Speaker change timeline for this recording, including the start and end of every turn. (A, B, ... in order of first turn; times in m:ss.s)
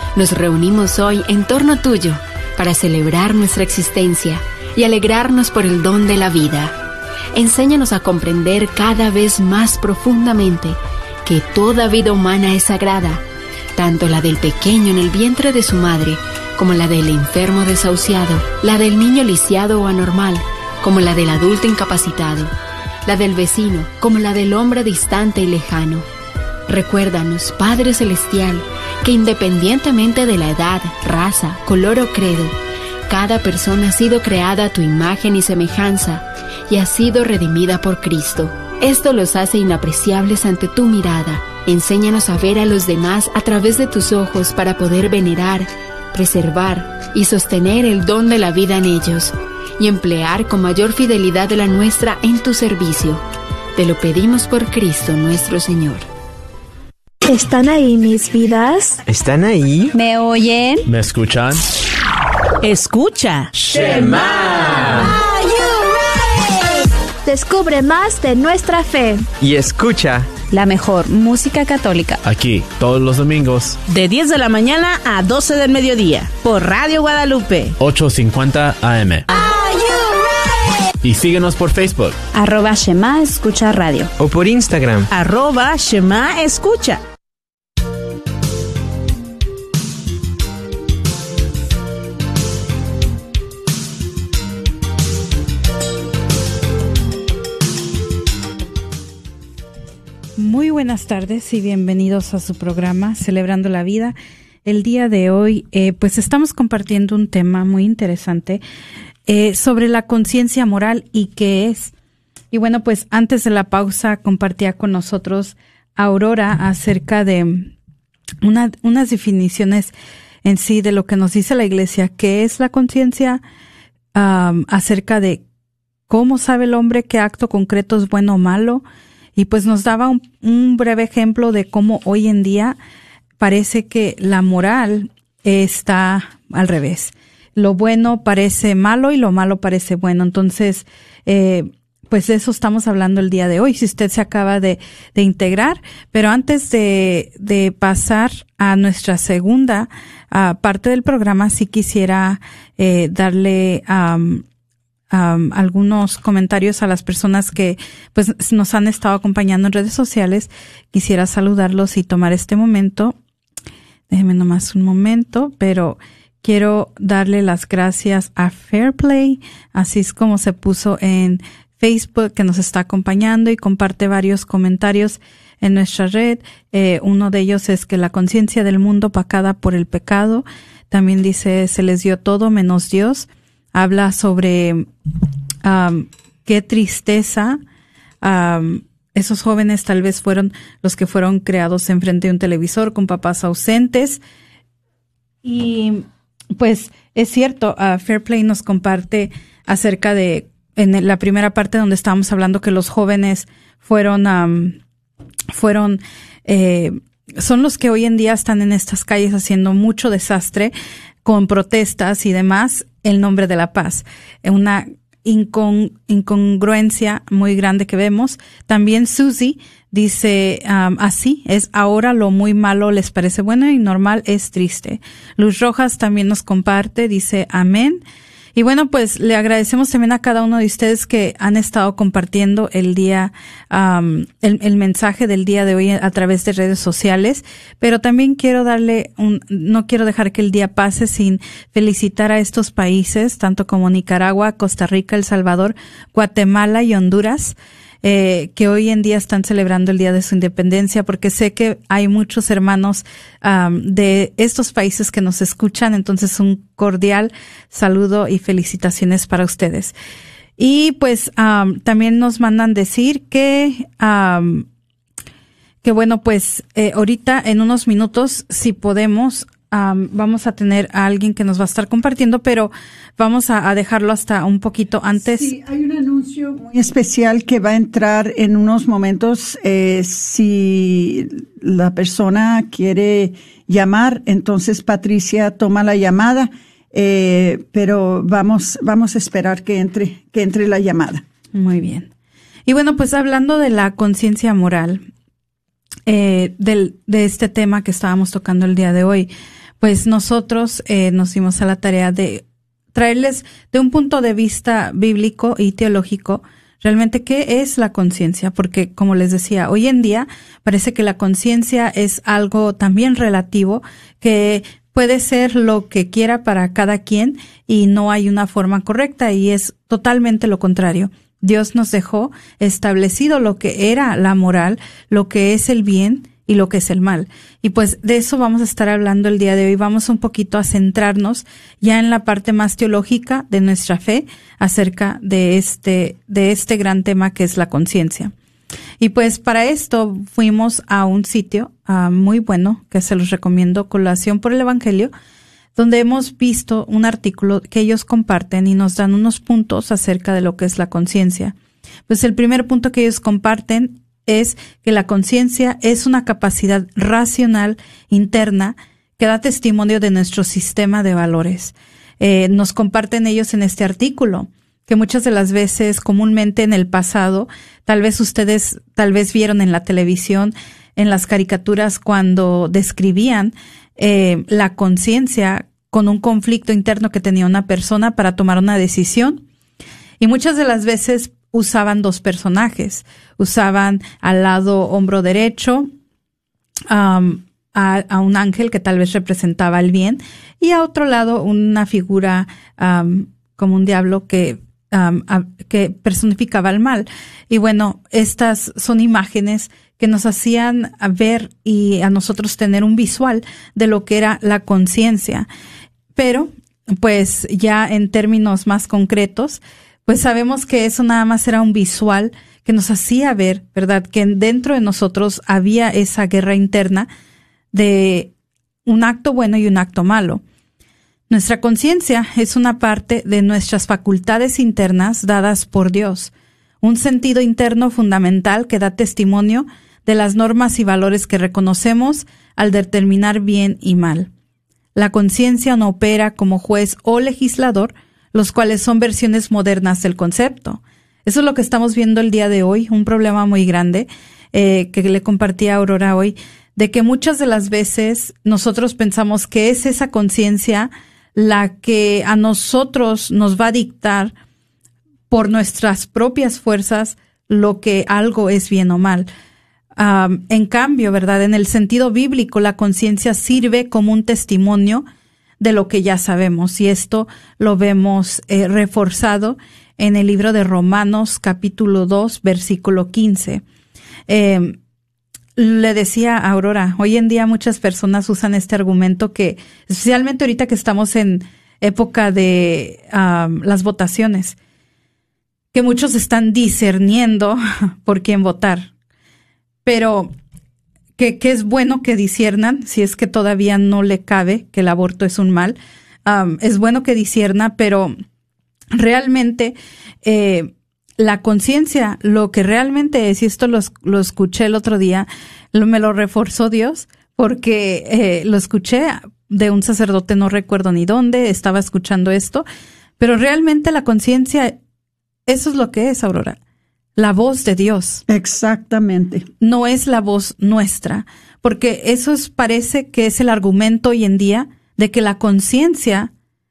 0:00.1-0:06.8 A
0:07.3-0:13.2 A
0:13.8-0:22.5 A
0:23.0-0:26.1 A
0:26.7-0:32.6 A
0:33.1-0:56.1 A
0:57.2-0:59.0 B
0:59.1-1:00.0 C
1:00.0-1:00.8 D
1:00.8-1:01.6 E
1:02.6-1:03.5 F
1:03.8-1:04.2 C
1:07.2-1:09.3 B
1:09.4-1:10.3 C
1:10.5-1:12.2 D
1:12.2-1:13.9 E
1:13.8-1:17.8 F
1:17.8-1:19.3 E
1:21.0-1:22.2 E
1:22.3-1:24.1 D
1:24.2-1:25.1 C
1:25.1-1:27.0 F
1:40.4-1:48.6 G
1:49.3-1:51.9 G
1:52.5-1:57.7 G
1:58.4-1:59.9 G
2:00.4-2:03.4 G
2:04.1-2:05.4 G
2:06.1-2:08.8 G
2:09.4-2:12.8 G
2:13.4-2:34.4 G
2:35.1-2:43.2 G
2:44.1-3:04.9 G
3:05.6-3:07.6 G
3:08.2-3:14.2 G
3:15.4-3:16.0 G
3:16.6-3:24.8 G
3:25.5-3:30.7 G
3:31.2-3:48.0 G
3:48.6-4:19.9 G
4:20.6-4:24.7 G
4:25.8-4:35.5 G
4:35.2-4:51.2 H
4:51.5-4:52.1 G
4:52.7-4:55.0 G
4:56.1-4:59.3 G
4:59.8-5:38.3 G
5:39.0-5:45.1 G
5:45.8-5:51.6 G
5:52.1-6:19.4 G
6:20.2-6:25.9 G
6:26.9-6:45.5 G
6:46.2-6:57.1 G
6:57.7-6:58.3 G
6:58.9-7:00.4 G
7:01.3-7:14.3 G
7:15.0-7:34.3 G
7:35.3-7:39.3 G
7:40.0-7:45.0 G
7:45.6-7:53.6 G
7:54.3-7:54.8 G
7:55.6-8:04.6 G
8:05.7-8:08.9 G
8:09.8-8:10.3 G
8:11.2-8:18.2 G
8:18.9-8:32.6 G
8:33.2-8:34.8 G
8:35.5-8:36.6 G
8:37.2-8:38.2 G
8:38.3-8:39.4 H
8:39.6-8:46.3 G